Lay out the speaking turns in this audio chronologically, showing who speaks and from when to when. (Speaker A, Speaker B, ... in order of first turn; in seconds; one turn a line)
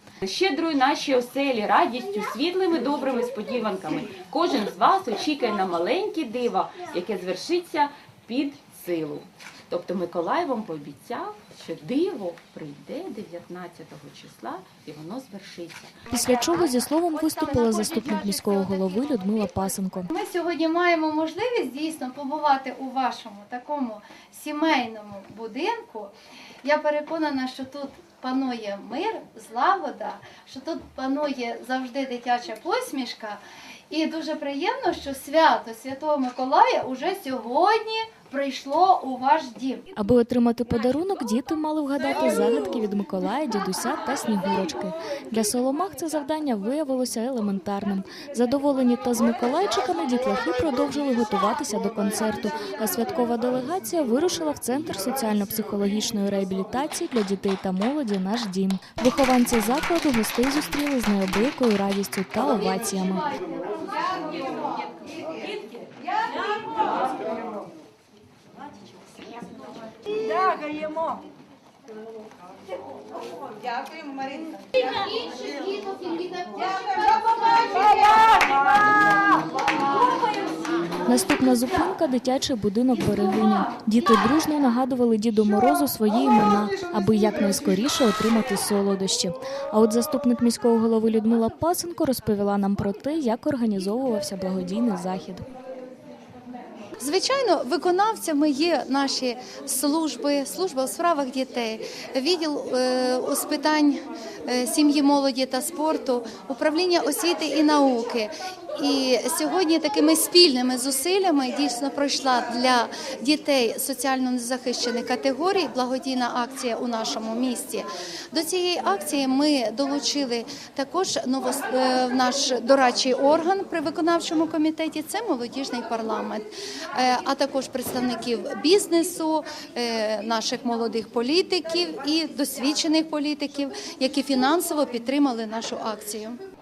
Speaker A: 0.2-16.1
Speaker B: 16.1-20.1
Speaker C: 20.1-39.9
Speaker B: 40.0-63.3
Speaker A: 66.5-66.9
Speaker C: 75.0-78.1
Speaker B: 81.0-95.4
Speaker C: 97.0-136.4